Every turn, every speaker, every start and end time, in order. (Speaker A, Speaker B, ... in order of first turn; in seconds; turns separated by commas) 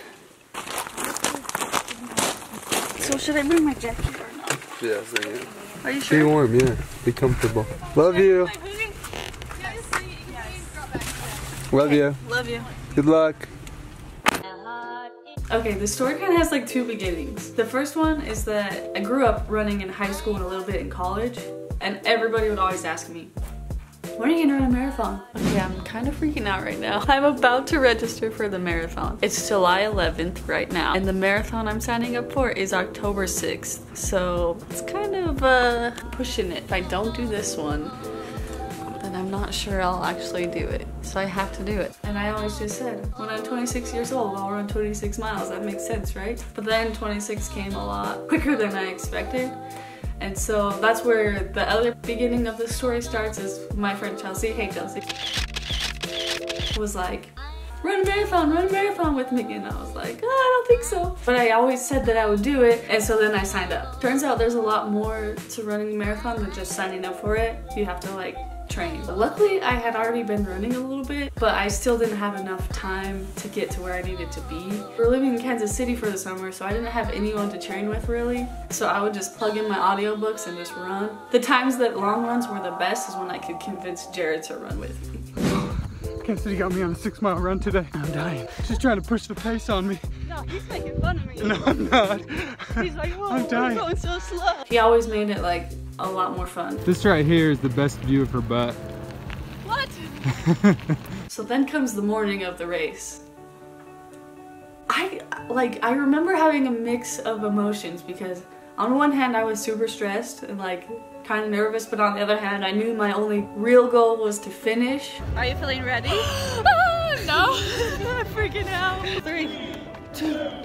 Speaker A: 1.0-2.3, Speaker A: 3.0-4.6, Speaker B: 4.8-5.5, Speaker A: 5.8-6.4, Speaker B: 6.0-8.6, Speaker C: 7.9-8.9, Speaker C: 9.6-11.1, Speaker B: 11.7-12.2, Speaker A: 11.8-12.7, Speaker B: 12.9-13.5, Speaker A: 15.5-23.3, Speaker A: 24.1-38.0, Speaker A: 38.9-49.5, Speaker A: 50.2-55.1, Speaker A: 56.7-85.3, Speaker D: 86.2-90.0, Speaker C: 90.3-92.1, Speaker D: 91.4-93.9, Speaker C: 92.7-94.6, Speaker A: 94.7-96.8, Speaker D: 96.8-98.8, Speaker C: 99.6-100.3, Speaker D: 100.4-100.8, Speaker A: 101.3-103.2, Speaker A: 104.9-115.2, Speaker C: 115.3-119.4, Speaker A: 116.5-119.6, Speaker A: 120.1-120.4